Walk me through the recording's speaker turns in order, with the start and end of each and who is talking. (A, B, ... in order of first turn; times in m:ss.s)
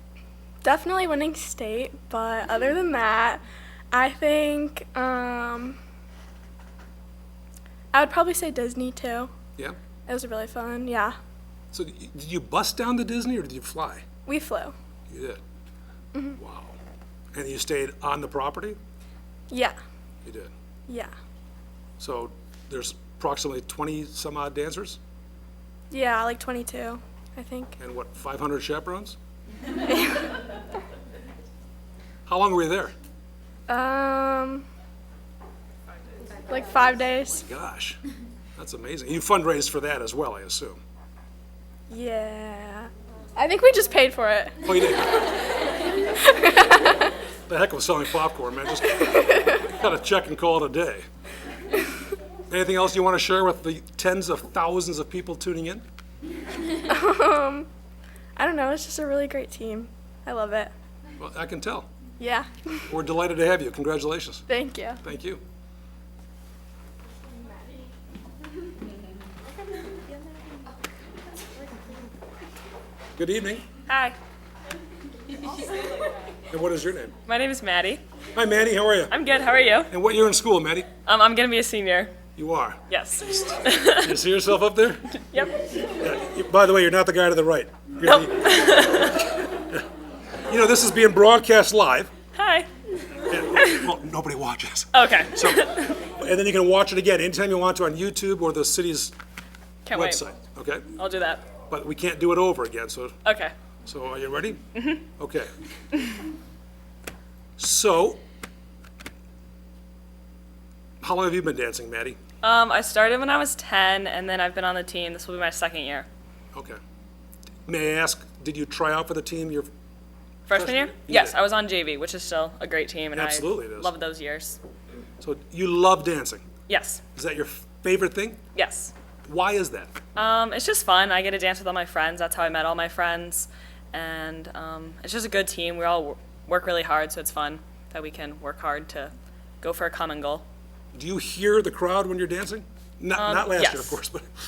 0:00.6-0:03.4 A
0:03.9-0:05.8 A
0:07.9-0:09.3 A
0:10.1-0:11.2 A
0:11.7-0:14.0 B
0:14.3-0:14.8 A
0:15.1-0:15.4 B
0:16.4-0:16.8 B
0:17.3-0:18.8 B
0:19.5-0:19.8 A
0:20.2-0:20.5 B
0:22.0-0:25.0 B
0:25.9-0:27.8 A
0:27.8-0:29.2 B
0:29.9-0:30.2 A
0:32.3-0:32.9 B
0:33.7-0:34.7 A
0:36.5-0:37.4 A
0:37.4-0:38.0 B
0:38.6-0:40.8 B
0:41.9-0:44.9 A
0:44.6-0:45.1 B
0:46.2-0:47.1 A
0:47.5-0:51.0 B
0:49.3-0:49.6 A
0:52.5-0:55.8 B
0:56.8-0:57.7 A
0:58.4-1:00.7 A
1:01.2-1:01.9 B
1:02.2-1:02.9 A
1:02.9-1:04.4 B
1:04.5-1:05.0 A
1:05.0-1:05.4 B
1:13.2-1:13.6 B
1:13.9-1:14.2 C
1:16.5-1:17.1 B
1:17.3-1:18.0 C
1:18.4-1:19.1 B
1:19.1-1:19.9 C
1:19.9-1:20.9 B
1:21.1-1:22.1 C
1:22.4-1:25.1 B
1:22.9-1:24.2 C
1:25.2-1:25.6 C
1:26.0-1:29.2 B
1:28.0-1:29.4 C
1:30.5-1:32.1 B
1:32.3-1:32.7 C
1:33.3-1:39.1 B
1:33.5-1:33.9 C
1:34.9-1:36.0 C
1:39.9-1:40.2 C
1:39.9-1:40.9 B
1:41.0-1:41.4 C
1:41.7-1:43.1 B
1:43.2-1:43.5 C
1:43.9-1:45.5 B
1:44.8-1:45.0 C
1:47.6-1:48.2 B
1:51.0-1:52.2 B
1:52.4-1:56.1 C
1:56.5-1:56.8 B
1:57.7-1:59.7 B
2:00.5-2:04.6 C
2:00.5-2:01.4 B
2:03.1-2:03.9 B
2:05.2-2:06.5 B
2:06.7-2:07.0 C
2:07.2-2:08.4 B
2:08.5-2:08.9 C
2:09.3-2:09.9 B
2:10.2-2:20.4 C
2:20.9-2:24.3 B
2:23.2-2:24.0 C